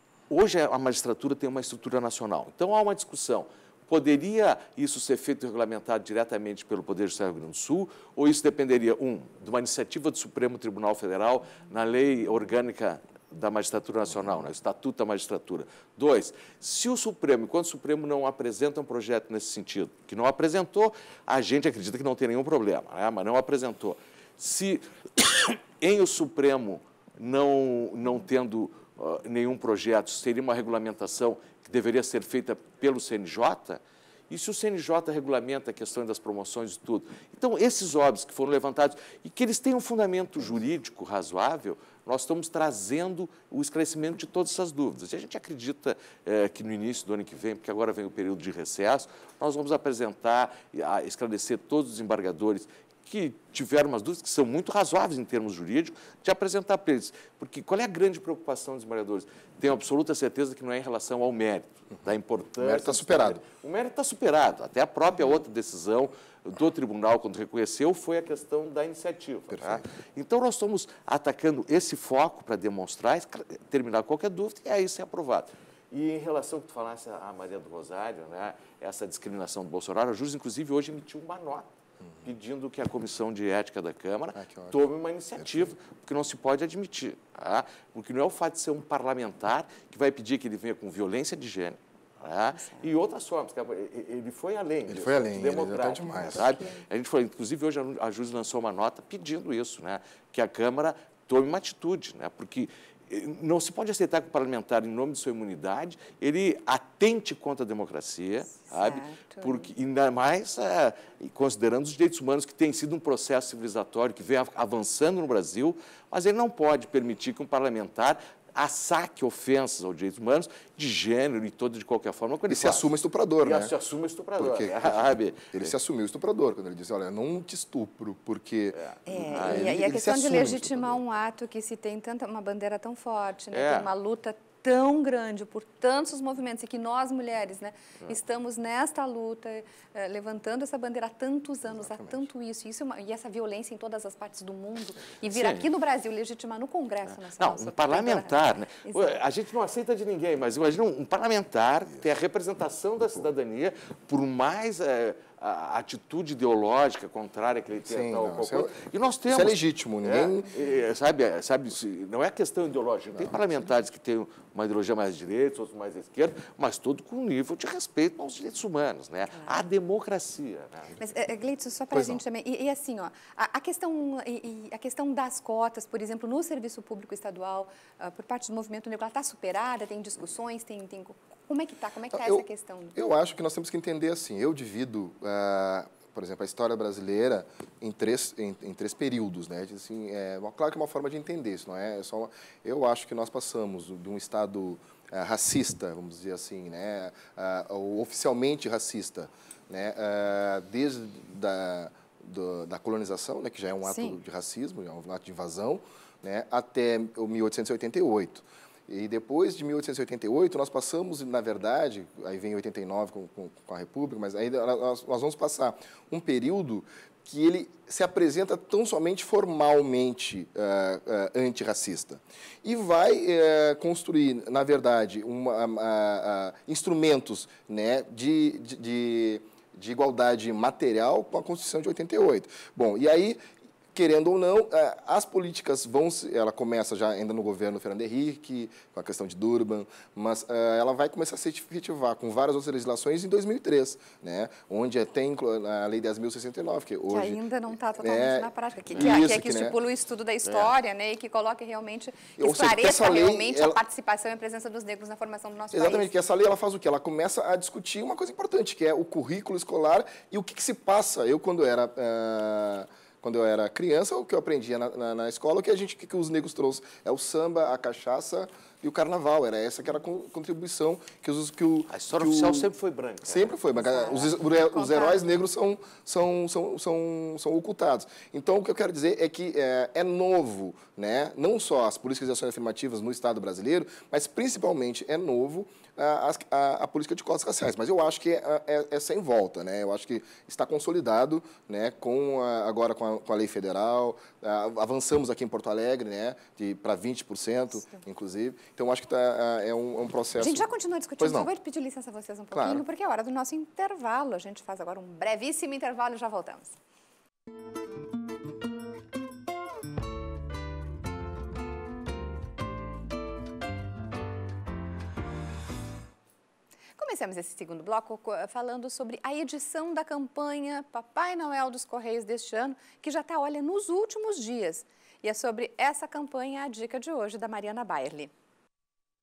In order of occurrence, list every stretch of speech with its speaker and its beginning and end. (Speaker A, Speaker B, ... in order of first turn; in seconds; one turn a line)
Speaker A: 0.3-81.7
Speaker B: 62.6-63.4
Speaker B: 69.5-69.8
Speaker A: 82.2-125.7
Speaker B: 84.4-84.8
Speaker B: 85.4-85.7
Speaker C: 92.6-92.9
Speaker B: 94.9-96.5
Speaker C: 96.0-96.8
Speaker C: 108.6-109.7
Speaker B: 122.5-123.7
Speaker B: 124.4-128.8
Speaker A: 128.7-129.8
Speaker C: 129.1-149.2
Speaker B: 129.3-131.0
Speaker A: 133.5-133.9
Speaker B: 141.7-142.2
Speaker A: 145.2-145.7
Speaker A: 147.2-171.1
Speaker B: 157.9-158.8
Speaker B: 159.3-160.5
Speaker C: 171.0-183.0
Speaker B: 171.9-172.2
Speaker B: 182.1-233.4
Speaker C: 203.8-204.2
Speaker B: 233.9-247.4
Speaker C: 247.1-256.1
Speaker B: 248.0-249.8
Speaker B: 252.4-253.8
Speaker B: 255.7-272.7
Speaker A: 271.9-273.5
Speaker B: 273.2-300.7
Speaker C: 273.7-275.4
Speaker C: 300.4-306.8
Speaker B: 301.2-301.5
Speaker B: 302.5-302.8
Speaker C: 317.0-328.3